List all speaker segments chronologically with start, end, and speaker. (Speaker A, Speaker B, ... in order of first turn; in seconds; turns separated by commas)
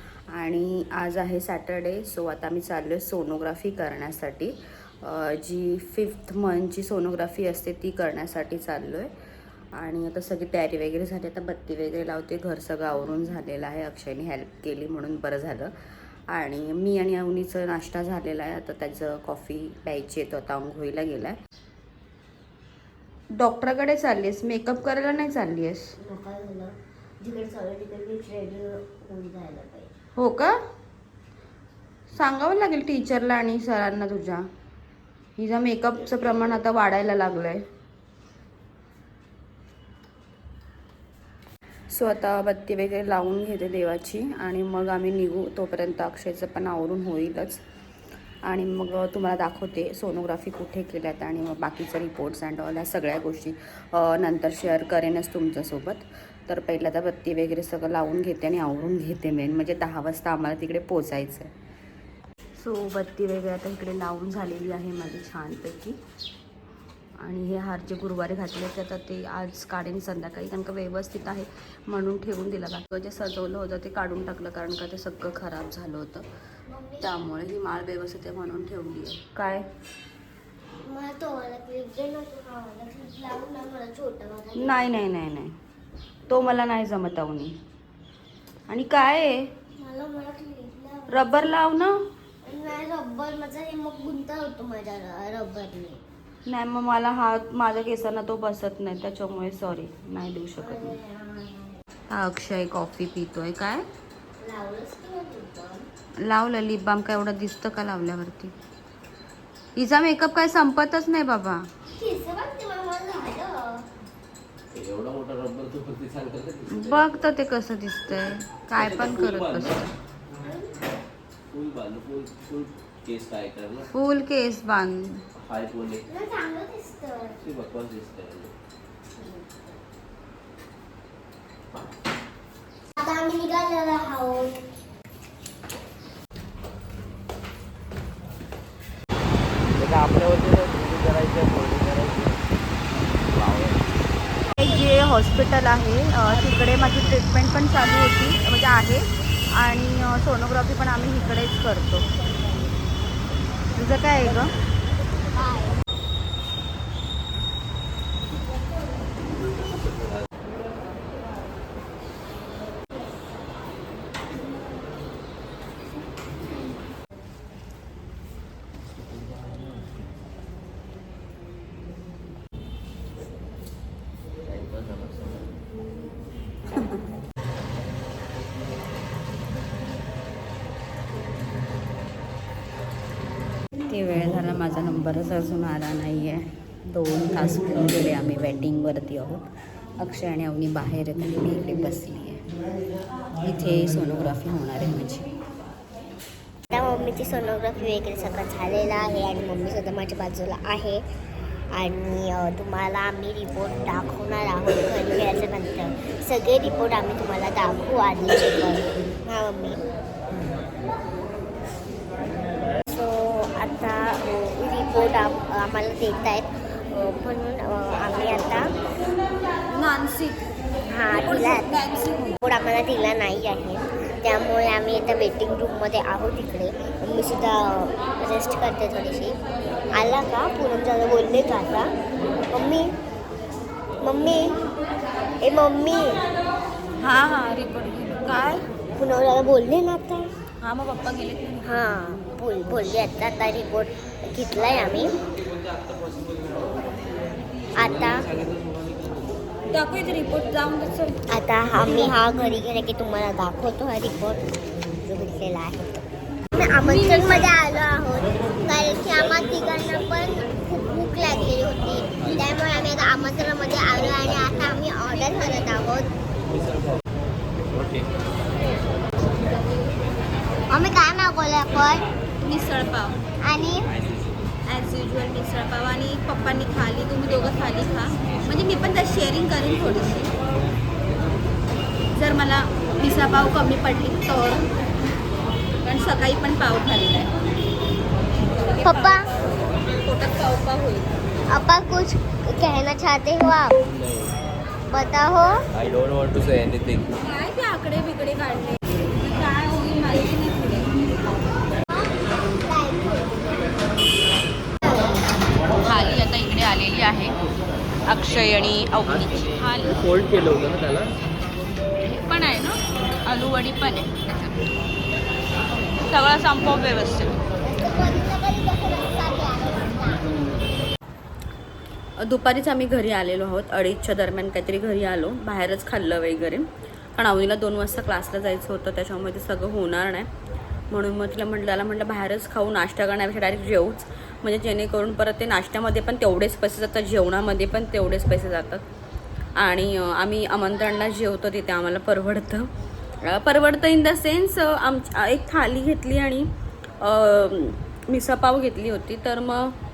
Speaker A: 0.3-9.1, Speaker A: 9.7-15.7, Speaker A: 16.3-21.4, Speaker A: 23.4-25.9, Speaker B: 26.0-29.9, Speaker A: 30.1-30.5, Speaker A: 32.1-34.5, Speaker A: 35.4-37.6, Speaker A: 41.9-47.6, Speaker A: 48.4-61.5, Speaker A: 62.6-66.0, Speaker A: 67.2-76.2, Speaker B: 76.7-77.0, Speaker A: 77.0-79.7, Speaker B: 80.8-84.9, Speaker A: 84.6-85.5, Speaker A: 86.3-87.6, Speaker A: 88.7-89.5, Speaker B: 89.8-91.4, Speaker A: 91.1-92.0, Speaker B: 92.4-96.0, Speaker A: 96.5-101.0, Speaker B: 100.6-101.8, Speaker A: 102.1-103.8, Speaker B: 104.4-105.9, Speaker A: 106.2-108.5, Speaker A: 109.8-111.7, Speaker B: 111.9-113.8, Speaker C: 114.7-117.0, Speaker A: 116.7-119.9, Speaker C: 118.7-119.8, Speaker B: 120.4-120.7, Speaker C: 121.5-123.9, Speaker A: 123.9-125.2, Speaker C: 125.3-126.0, Speaker B: 126.1-127.4, Speaker C: 127.4-128.5, Speaker B: 129.2-129.7, Speaker B: 133.0-134.7, Speaker C: 139.8-142.4, Speaker C: 143.3-143.8, Speaker A: 144.6-152.1, Speaker A: 153.7-154.5, Speaker B: 155.4-155.6, Speaker C: 174.5-175.3, Speaker A: 183.9-189.4, Speaker A: 190.0-192.4, Speaker A: 193.4-195.3, Speaker B: 196.7-201.0, Speaker B: 201.7-209.8, Speaker B: 212.9-218.7, Speaker A: 219.7-220.4, Speaker B: 220.9-221.8, Speaker A: 221.1-222.4, Speaker B: 222.4-229.4, Speaker B: 229.9-231.9, Speaker B: 232.5-232.9, Speaker B: 234.0-234.6, Speaker B: 235.4-236.2, Speaker A: 237.0-238.7, Speaker B: 238.9-240.3, Speaker A: 240.6-241.5, Speaker B: 241.6-245.1, Speaker B: 247.8-248.2, Speaker A: 249.7-251.2, Speaker B: 251.3-266.1, Speaker A: 251.9-252.1, Speaker A: 256.8-257.5, Speaker C: 267.7-268.1, Speaker B: 270.7-272.1, Speaker A: 272.4-273.2, Speaker B: 273.4-273.9, Speaker A: 274.7-280.3, Speaker A: 282.1-284.7, Speaker A: 285.8-287.3, Speaker A: 288.6-289.2, Speaker B: 288.8-289.2, Speaker A: 289.8-291.1, Speaker B: 291.5-293.8, Speaker C: 293.9-294.3, Speaker B: 294.9-295.6, Speaker C: 295.7-297.1, Speaker A: 297.2-300.9, Speaker B: 301.9-303.7, Speaker B: 304.9-305.1, Speaker A: 305.8-307.4, Speaker A: 308.1-310.0, Speaker C: 309.9-311.1, Speaker A: 312.0-314.5, Speaker A: 316.0-317.4, Speaker B: 317.6-320.3, Speaker A: 322.2-330.3, Speaker A: 330.9-338.8, Speaker A: 339.6-342.7, Speaker A: 343.2-346.5, Speaker A: 347.0-349.8